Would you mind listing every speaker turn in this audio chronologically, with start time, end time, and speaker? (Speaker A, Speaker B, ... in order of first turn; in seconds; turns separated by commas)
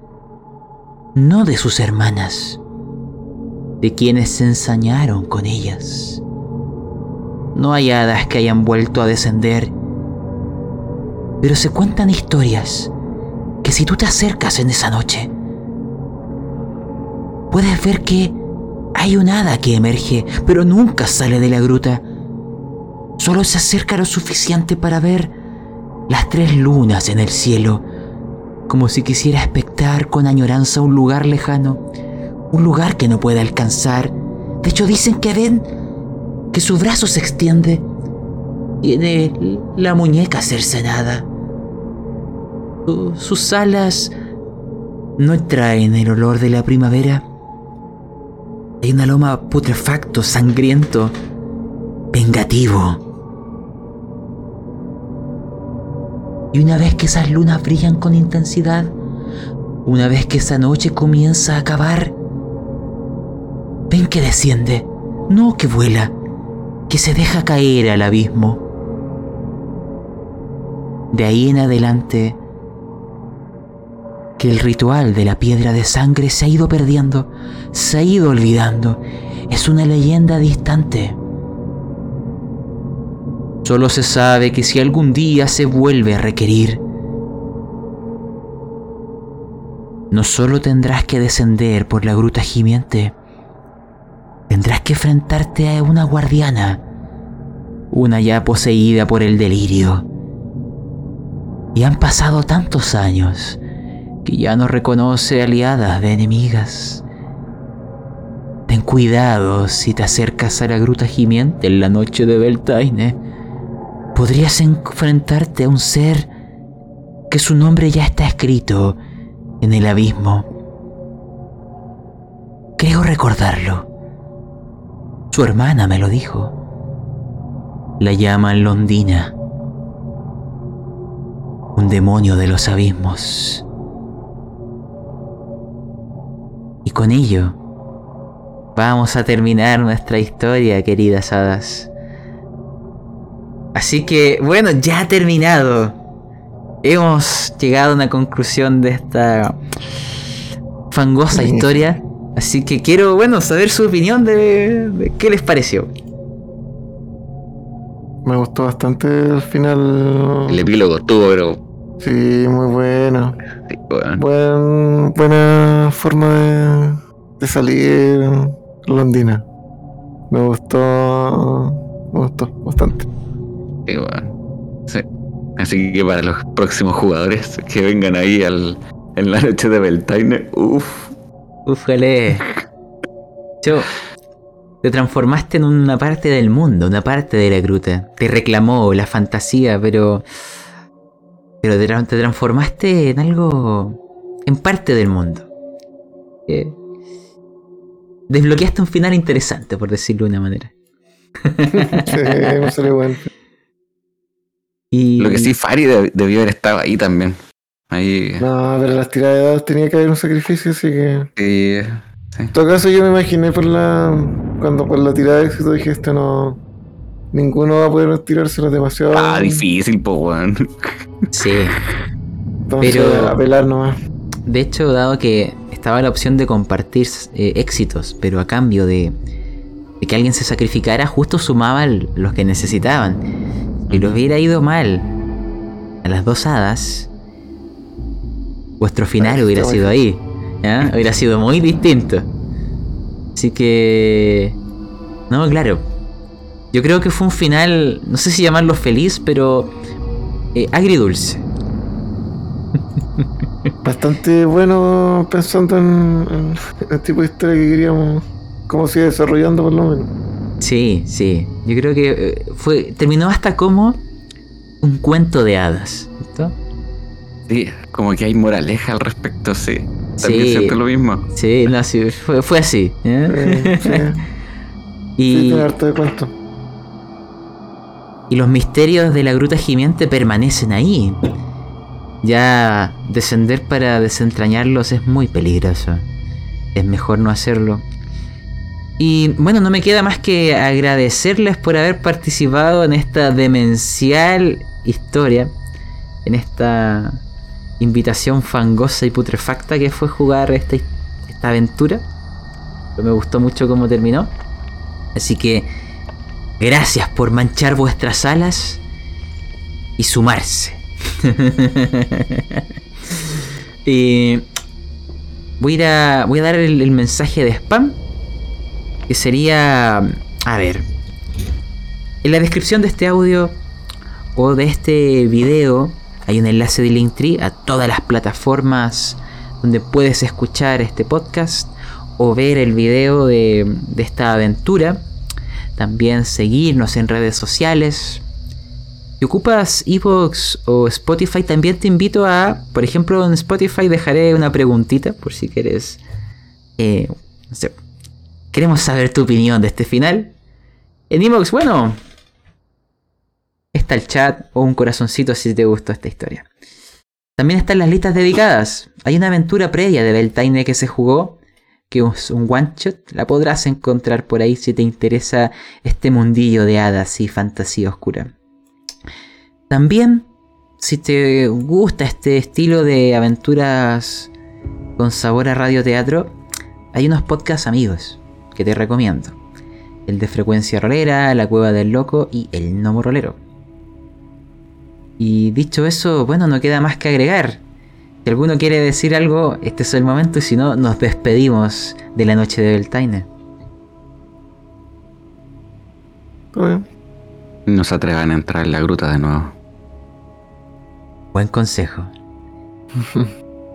Speaker A: 1.1-2.6, Speaker A: 3.8-6.2, Speaker A: 7.5-9.7, Speaker A: 11.4-12.9, Speaker A: 13.6-15.3, Speaker A: 17.5-18.4, Speaker A: 18.9-22.0, Speaker A: 23.2-25.3, Speaker A: 26.1-27.8, Speaker A: 28.7-31.8, Speaker A: 32.5-35.7, Speaker A: 36.5-37.9, Speaker A: 38.8-41.3, Speaker A: 42.9-44.1, Speaker A: 45.2-47.2, Speaker A: 48.8-51.1, Speaker A: 52.1-53.0, Speaker A: 56.5-58.9, Speaker A: 59.8-62.1, Speaker A: 63.9-66.1, Speaker A: 66.9-68.6, Speaker A: 71.1-72.4, Speaker A: 74.4-81.2, Speaker A: 83.6-86.8, Speaker A: 90.1-93.2, Speaker A: 94.5-96.8, Speaker A: 97.9-100.1, Speaker A: 101.7-103.6, Speaker A: 104.2-107.0, Speaker A: 108.7-113.2, Speaker A: 114.1-116.3, Speaker A: 117.3-119.0, Speaker A: 119.6-120.5, Speaker A: 122.8-123.9, Speaker A: 125.3-126.5, Speaker A: 128.0-129.3, Speaker A: 131.8-133.6, Speaker A: 136.8-137.6, Speaker A: 138.7-141.9, Speaker A: 143.7-146.0, Speaker A: 146.8-149.6, Speaker A: 150.9-155.9, Speaker B: 151.3-151.9, Speaker B: 158.2-160.6, Speaker C: 160.5-161.6, Speaker B: 162.0-163.4, Speaker C: 163.7-164.2, Speaker B: 164.2-169.4, Speaker B: 170.3-173.1, Speaker C: 173.8-174.3, Speaker C: 175.6-181.1, Speaker A: 181.7-182.4, Speaker A: 183.6-183.9, Speaker A: 184.8-190.2, Speaker A: 191.6-195.5, Speaker A: 196.5-196.8, Speaker A: 198.3-200.7, Speaker A: 201.4-202.7, Speaker B: 201.7-203.3, Speaker A: 204.9-205.5, Speaker C: 205.2-207.4, Speaker C: 207.9-208.5, Speaker B: 208.4-211.3, Speaker C: 211.4-212.5, Speaker B: 212.5-216.6, Speaker B: 217.3-219.6, Speaker C: 219.1-220.9, Speaker A: 221.3-221.8, Speaker B: 222.7-223.9, Speaker A: 222.8-223.3, Speaker A: 224.4-229.1, Speaker A: 230.0-233.2, Speaker A: 233.9-235.1, Speaker C: 233.9-234.2, Speaker A: 236.0-237.1, Speaker A: 238.8-242.3, Speaker B: 239.2-240.0, Speaker A: 243.3-244.6, Speaker A: 245.3-245.8, Speaker A: 246.7-249.7, Speaker A: 250.5-251.4, Speaker B: 253.8-260.1, Speaker A: 260.6-264.0, Speaker A: 264.8-266.6, Speaker C: 267.5-271.3, Speaker A: 270.2-270.8, Speaker A: 271.3-274.0, Speaker B: 273.3-274.2, Speaker A: 275.2-275.7, Speaker B: 275.3-276.3, Speaker A: 278.3-281.2, Speaker A: 282.2-286.1, Speaker A: 286.7-287.8, Speaker A: 289.0-295.5, Speaker A: 296.2-297.2, Speaker A: 297.8-302.0, Speaker A: 303.0-304.3, Speaker A: 305.1-305.7, Speaker A: 306.6-308.8, Speaker A: 310.0-312.6, Speaker A: 313.8-314.5, Speaker A: 315.6-318.0, Speaker A: 319.1-320.8, Speaker A: 322.2-323.5, Speaker A: 324.3-335.0, Speaker A: 335.8-338.2, Speaker A: 339.2-346.0, Speaker A: 346.8-347.8, Speaker A: 348.5-350.3, Speaker A: 351.1-352.0, Speaker A: 353.7-356.5, Speaker A: 357.4-361.4, Speaker A: 361.9-368.3, Speaker A: 369.7-370.3, Speaker A: 370.8-374.3, Speaker A: 375.0-376.3, Speaker A: 376.9-379.4, Speaker A: 380.1-383.4, Speaker A: 385.2-387.6, Speaker A: 388.2-393.3, Speaker B: 396.5-396.9, Speaker C: 397.7-399.6, Speaker A: 401.3-402.1, Speaker B: 402.9-403.3